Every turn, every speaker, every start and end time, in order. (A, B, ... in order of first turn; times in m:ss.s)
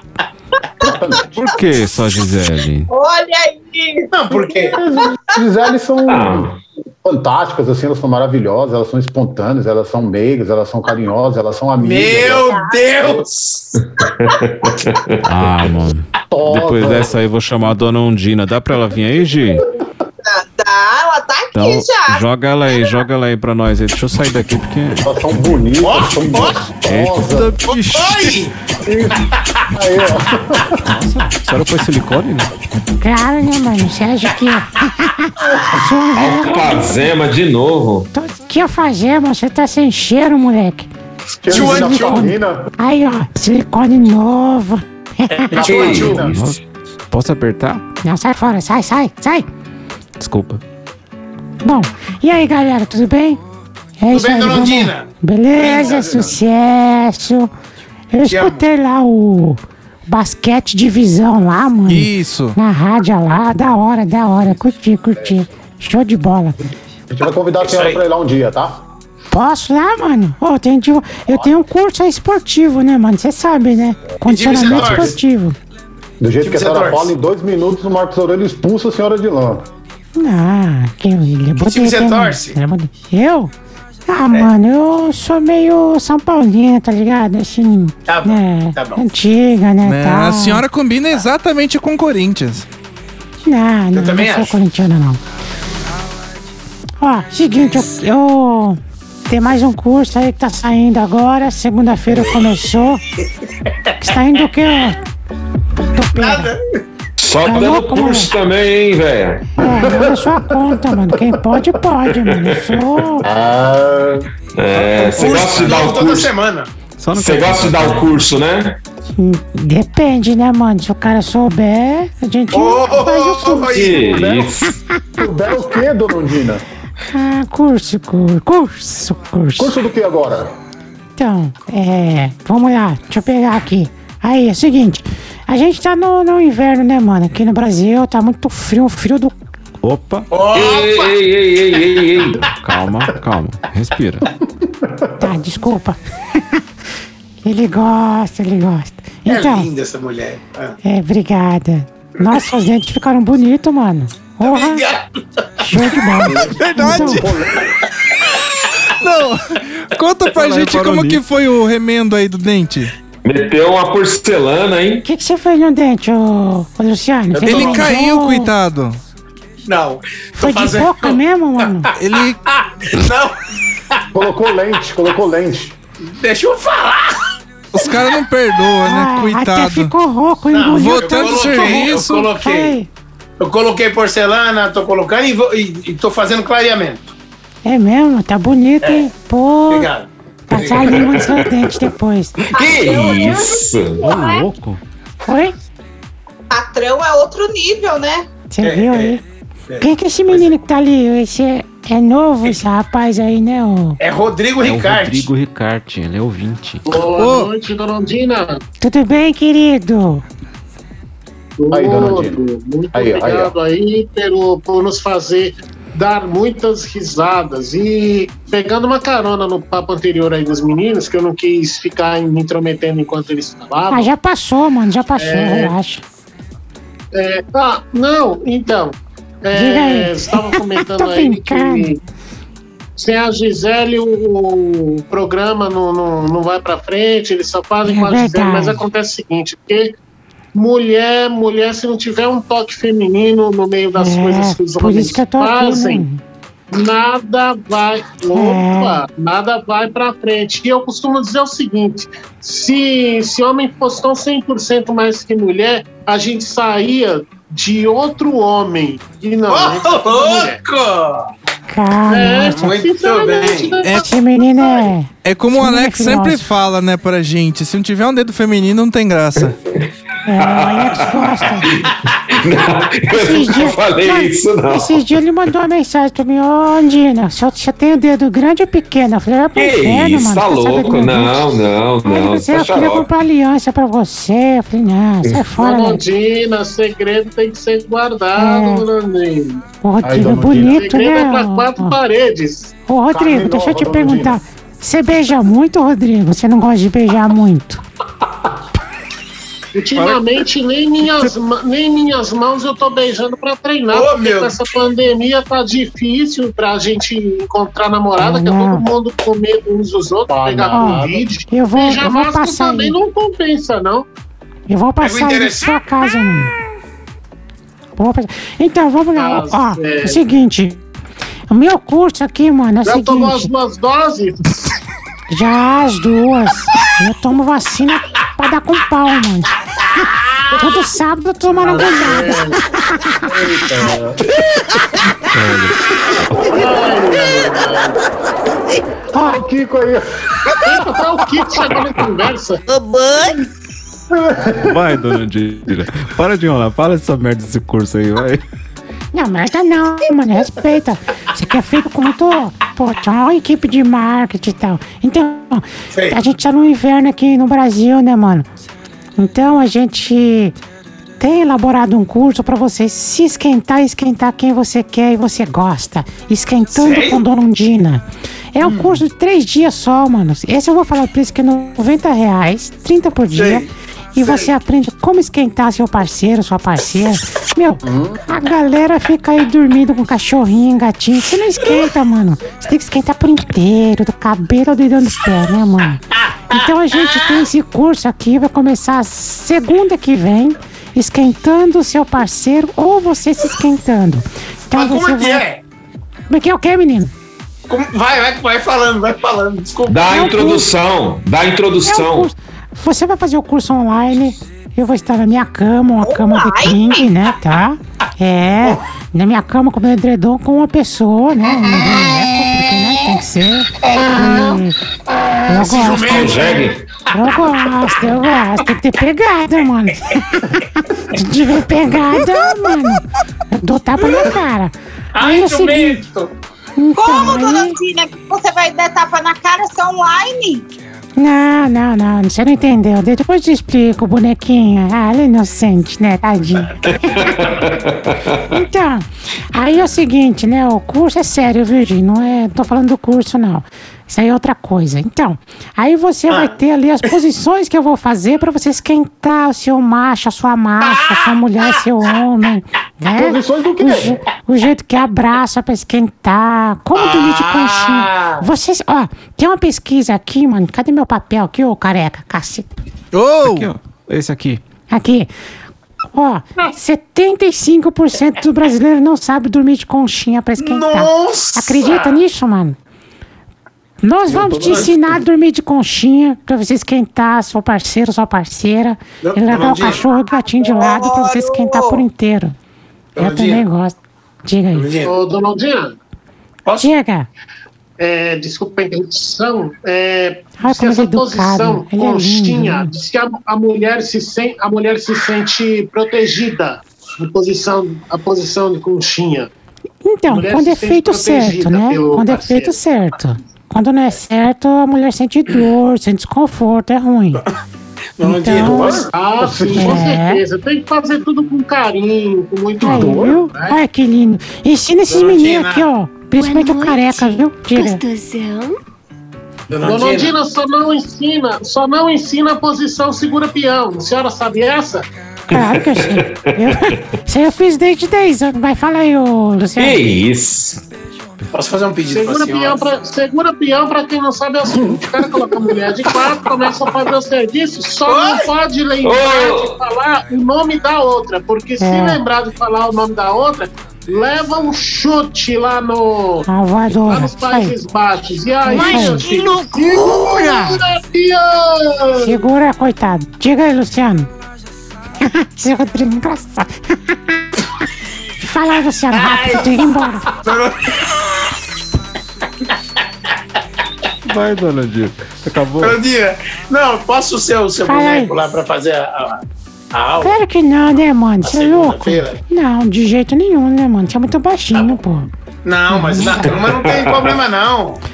0:00.8-0:01.3 A
0:01.3-0:02.9 B
0:02.9-0:04.1 C
0:04.1-0:04.8 D
0:04.3-0:06.5 A
0:06.1-0:06.6 E
0:07.0-0:12.5 A
0:11.8-0:13.8 D
0:12.4-0:12.9 C
0:14.0-0:15.2 E
0:15.2-0:19.6 B
0:16.3-0:17.2 A
0:20.2-0:22.9 C
0:21.5-0:25.0 B
0:25.0-0:27.6 A
0:25.8-0:26.6 D
0:26.8-0:28.5 B
0:27.7-0:28.5 D
0:28.8-0:30.8 A
0:30.8-0:32.5 B
0:33.0-0:37.0 F
0:36.2-0:38.1 E
0:38.1-0:40.9 F
0:41.4-0:42.7 A
0:41.5-0:42.2 D
0:41.5-0:45.6 F
0:45.3-0:46.5 D
0:45.5-0:46.4 A
0:45.6-0:46.2 E
0:46.2-0:46.6 B
0:47.1-0:47.8 B
0:48.0-0:49.5 F
0:50.2-0:50.6 B
0:51.6-0:53.4 F
0:54.0-0:57.5 F
0:54.1-0:56.0 D
0:55.6-0:56.4 A
0:58.1-1:06.6 F
0:58.3-0:58.6 D
1:01.9-1:02.6 G
1:07.1-1:08.8 A
1:07.6-1:08.0 D
1:09.3-1:15.6 F
1:14.2-1:15.1 D
1:14.4-1:15.2 A
1:16.2-1:19.7 A
1:16.4-1:17.1 D
1:20.2-1:23.5 F
1:21.6-1:22.6 D
1:24.1-1:30.6 F
1:28.1-1:29.0 D
1:29.8-1:32.7 G
1:33.4-1:35.2 F
1:33.9-1:34.6 D
1:37.0-1:43.0 F
1:43.7-1:43.9 D
1:44.0-1:45.0 F
1:45.9-1:46.5 F
1:46.2-1:46.6 D
1:47.2-1:49.5 E
1:47.4-1:48.3 F
1:49.6-1:53.2 F
1:49.6-1:51.6 A
1:53.2-1:56.0 A
1:54.6-1:56.3 E
1:55.1-1:56.7 D
1:57.0-1:58.3 B
1:57.1-1:58.8 E
1:59.2-2:03.8 F
2:02.5-2:04.0 D
2:03.7-2:04.8 E
2:03.8-2:04.6 A
2:05.2-2:06.6 A
2:07.1-2:09.7 F
2:09.6-2:10.6 A
2:11.2-2:19.4 F
2:19.8-2:20.3 B
2:20.3-2:21.2 D
2:20.5-2:22.4 E
2:22.6-2:24.3 B
2:24.6-2:25.1 A
2:25.2-2:26.0 F
2:27.4-2:29.7 F
2:29.3-2:30.8 D
2:30.8-2:34.8 F
2:34.4-2:35.0 D
2:35.6-2:37.2 F
2:36.2-2:37.7 A
2:36.6-2:37.3 G
2:39.0-2:42.9 G
2:40.3-2:41.2 B
2:43.2-2:45.0 E
2:45.0-2:48.5 F
2:47.3-2:47.9 D
2:47.4-2:49.0 G
2:49.7-2:51.2 D
2:50.4-2:51.9 F
2:52.0-2:52.4 G
2:52.6-2:53.4 D
2:54.1-2:55.8 A
2:56.0-2:57.2 D
2:57.7-2:59.9 G
2:58.8-3:02.9 F
3:00.5-3:02.8 D
3:00.7-3:02.3 G
3:03.4-3:07.1 D
3:07.6-3:09.9 F
3:09.7-3:11.3 D
3:10.5-3:12.4 F
3:12.5-3:14.5 C
3:12.6-3:14.0 E
3:14.0-3:14.8 B
3:15.2-3:15.5 F
3:16.5-3:18.3 C
3:18.5-3:19.2 F
3:18.6-3:19.2 D
3:19.7-3:20.5 D
3:19.8-3:24.0 F
3:24.0-3:25.3 D
3:24.6-3:27.0 B
3:26.9-3:28.6 H
3:27.1-3:27.5 G
3:28.8-3:30.2 F
3:31.6-3:44.1 H
3:31.7-3:32.4 A
3:32.9-3:33.5 A
3:43.9-3:46.0 F
3:45.2-3:45.8 H
3:47.1-3:52.0 H
3:49.5-3:51.9 F
3:53.0-4:00.0 H
3:57.8-3:58.8 F
4:00.6-4:06.0 H
4:04.0-4:06.2 F
4:06.7-4:20.6 H
4:08.3-4:09.0 F
4:19.5-4:21.3 D
4:21.7-4:22.7 F
4:22.1-4:24.1 H
4:22.4-4:23.8 D
4:23.9-4:26.4 F
4:25.2-4:29.6 G
4:30.3-4:31.7 F
4:30.4-4:35.0 E
4:33.1-4:46.0 F
4:39.6-4:43.1 E
4:45.6-4:49.6 H
4:48.4-4:48.9 F
4:49.8-4:52.0 F
4:50.0-4:50.9 A
4:50.6-4:52.7 H
4:52.9-4:57.8 F
4:53.1-4:54.4 A
4:59.7-5:14.1 H
5:03.9-5:04.6 D
5:08.2-5:08.9 F
5:10.3-5:11.3 A
5:10.7-5:13.0 F
5:14.7-5:16.5 F
5:15.0-5:15.8 D
5:18.0-5:20.8 F
5:19.2-5:20.2 H
5:21.5-5:23.5 F
5:22.8-5:24.7 H
5:25.3-5:29.5 F
5:30.5-5:33.2 F
5:31.6-5:32.6 H
5:33.2-5:34.2 A
5:35.3-5:36.5 B
5:36.5-5:38.0 H
5:39.1-5:39.4 F
5:39.2-5:40.9 A
5:40.6-5:42.6 H
5:42.7-5:43.4 I
5:44.1-5:44.8 A
5:44.6-5:48.4 B
5:49.1-5:58.5 F
5:59.2-6:00.6 F
6:01.2-6:35.4 F
6:06.7-6:07.2 D
6:08.6-6:09.0 A
6:13.3-6:13.7 D
6:14.2-6:14.5 D
6:17.8-6:18.2 A
6:26.5-6:27.4 D
6:34.7-6:35.6 D
6:36.3-6:37.1 F
6:37.7-6:40.0 D
6:39.9-6:42.3 E
6:40.1-6:40.7 F
6:41.8-6:54.8 F
6:46.0-6:47.0 C
6:55.4-6:56.8 D
6:55.5-7:06.0 F
6:56.1-6:56.8 E
7:05.1-7:06.3 D
7:06.8-7:07.8 F
7:06.9-7:10.6 C
7:11.2-7:17.5 F
7:17.1-7:18.4 E
7:18.5-7:42.7 F
7:26.3-7:26.6 D
7:30.8-7:31.3 D
7:33.1-7:34.2 A
7:36.9-7:38.4 D
7:43.1-7:43.7 G
7:43.4-7:44.6 B
7:44.9-7:45.3 F
7:46.1-7:52.8 F
7:50.6-7:52.1 D
7:54.0-8:02.6 F
7:54.3-7:54.9 D
7:59.2-8:00.0 D
8:00.6-8:02.0 C
8:03.2-8:03.6 D
8:03.2-8:04.9 F
8:04.7-8:05.2 D
8:05.0-8:05.9 H
8:06.8-8:07.3 F
8:08.0-8:19.5 H
8:10.6-8:12.9 F
8:20.0-8:27.4 F
8:20.3-8:22.8 H
8:28.2-8:29.1 D
8:28.2-8:29.1 F
8:28.6-8:30.2 A
8:29.1-8:33.8 H
8:29.7-8:30.4 F
8:32.8-8:38.0 F
8:32.8-8:33.4 A
8:35.1-8:35.9 D
8:36.4-8:37.2 I
8:37.8-8:38.7 I
8:39.7-8:40.4 D
8:39.8-8:45.1 H
8:45.5-8:50.0 F
8:45.6-8:46.4 E
8:49.8-8:50.8 E
8:51.5-8:52.9 D
8:52.1-9:12.4 H
8:58.0-8:58.5 D
8:59.0-8:59.8 E
9:01.8-9:02.2 F
9:06.5-9:07.8 F
9:08.6-9:09.4 F
9:09.1-9:10.8 I
9:10.4-9:10.8 F
9:12.1-9:14.3 F
9:15.2-9:17.6 F
9:18.4-9:20.3 F
9:19.1-9:19.8 D
9:20.4-9:21.0 D
9:24.2-9:26.0 B
9:25.8-9:30.4 D
9:27.8-9:28.3 F
9:30.2-9:35.3 F
9:31.4-9:32.4 D
9:35.6-9:38.0 D
9:35.9-9:36.5 F
9:36.5-9:37.3 E